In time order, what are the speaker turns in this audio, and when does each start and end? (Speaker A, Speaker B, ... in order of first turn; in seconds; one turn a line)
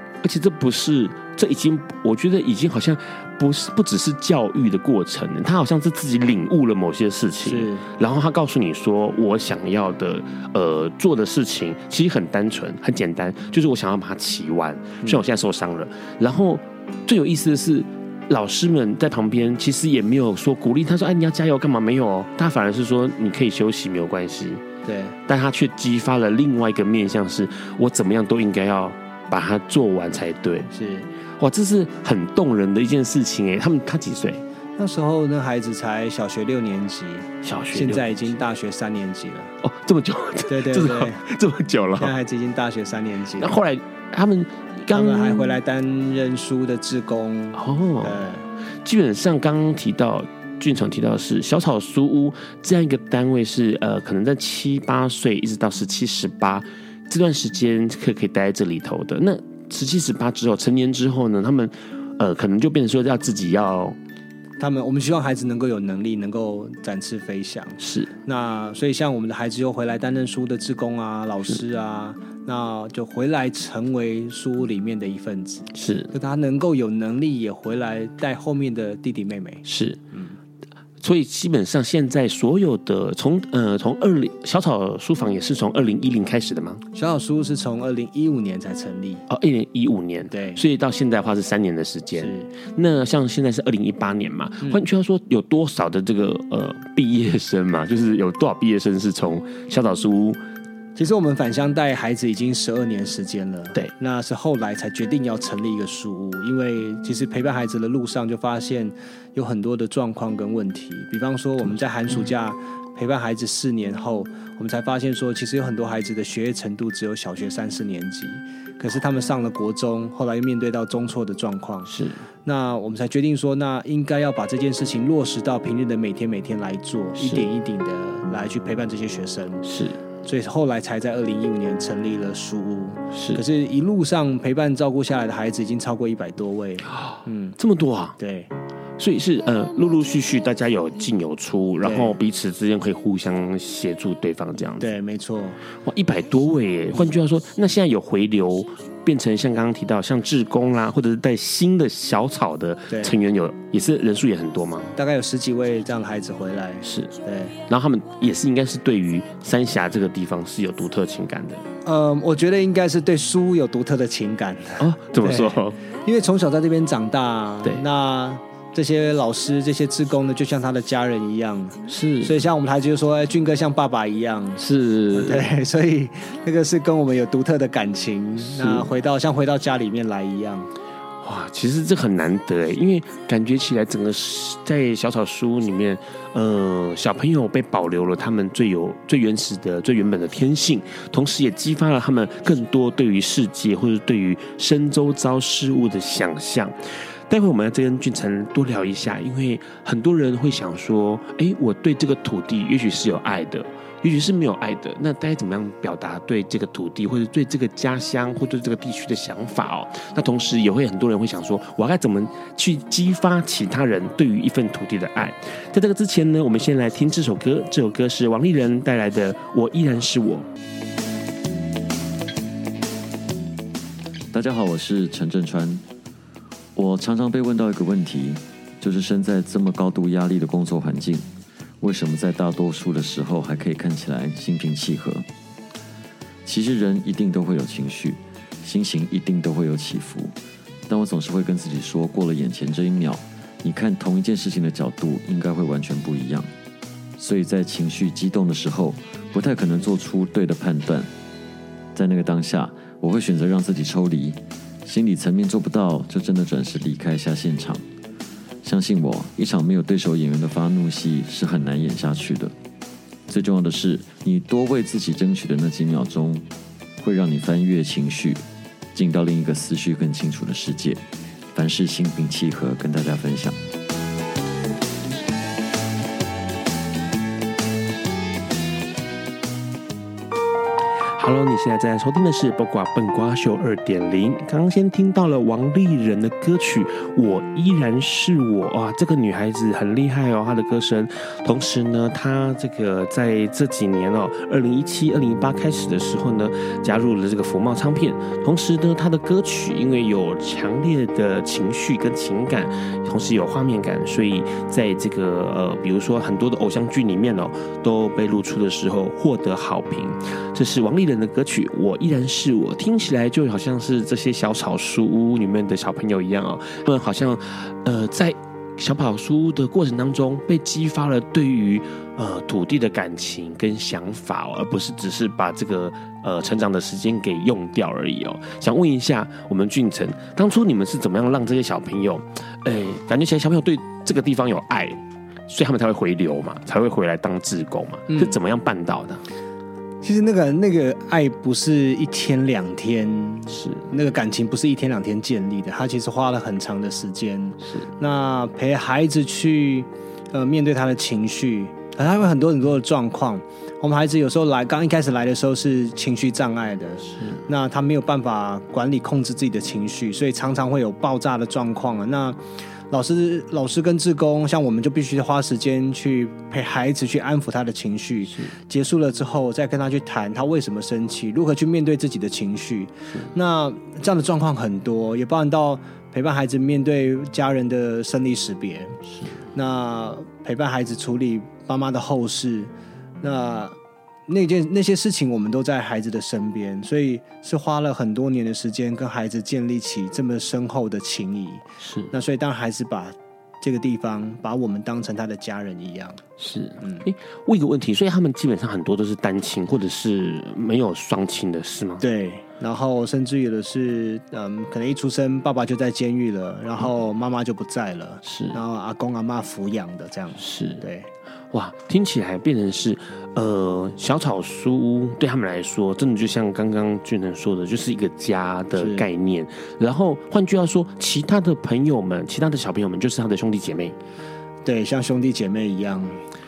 Speaker A: 0.2-24.6
Speaker B: 7.4-7.9
Speaker B: 24.8-25.2
Speaker A: 25.3-30.7
Speaker B: 30.7-31.1
Speaker A: 31.4-34.4
Speaker B: 34.8-39.5
Speaker A: 37.4-38.0
Speaker A: 39.6-42.1
Speaker B: 40.5-41.2
Speaker B: 42.0-43.5
Speaker A: 43.4-45.6
Speaker B: 44.9-48.5
Speaker A: 47.5-48.2
Speaker A: 48.8-64.0
Speaker B: 64.6-80.3
Speaker A: 67.8-68.1
Speaker A: 75.7-76.1
Speaker A: 79.6-80.0
Speaker A: 81.0-86.8
Speaker B: 86.9-89.2
Speaker A: 89.3-100.4
Speaker B: 90.3-90.6
Speaker B: 92.2-92.5
Speaker B: 101.0-121.9
Speaker A: 121.9-122.2
Speaker B: 122.4-129.6
Speaker A: 127.2-127.5
Speaker A: 129.6-130.0
Speaker B: 130.2-137.6
Speaker A: 133.1-133.4
Speaker A: 136.9-138.2
Speaker B: 138.2-138.5
Speaker A: 139.0-144.9
Speaker B: 141.8-142.1
Speaker B: 144.8-145.6
Speaker A: 145.8-154.9
Speaker B: 152.9-153.1
Speaker B: 154.9-157.5
Speaker A: 156.8-157.1
Speaker A: 157.7-161.6
Speaker B: 161.8-180.7
Speaker A: 164.8-165.8
Speaker A: 171.9-172.3
Speaker A: 174.6-175.5
Speaker A: 178.5-178.9
Speaker A: 181.2-196.7
Speaker A: 197.3-220.5
Speaker C: 224.3-225.8
Speaker C: 226.7-231.3
Speaker C: 231.8-235.2
Speaker C: 236.4-240.3
Speaker C: 240.9-246.5
Speaker C: 247.2-251.1
Speaker C: 251.9-257.8
Speaker C: 258.6-262.5
Speaker C: 263.3-266.4
Speaker C: 267.0-271.0
Speaker C: 271.5-273.6
Speaker A: 281.1-339.2
Speaker B: 338.1-338.4
Speaker B: 340.0-362.4
Speaker A: 343.5-343.8
Speaker B: 362.9-379.0
Speaker B: 379.5-383.7
Speaker B: 384.3-396.2
Speaker A: 391.8-392.1
Speaker A: 396.4-402.0
Speaker B: 396.8-397.1
Speaker B: 402.0-411.1
Speaker A: 408.2-408.6
Speaker A: 410.4-410.8
Speaker A: 411.5-423.9
Speaker B: 418.8-419.1
Speaker B: 424.6-426.2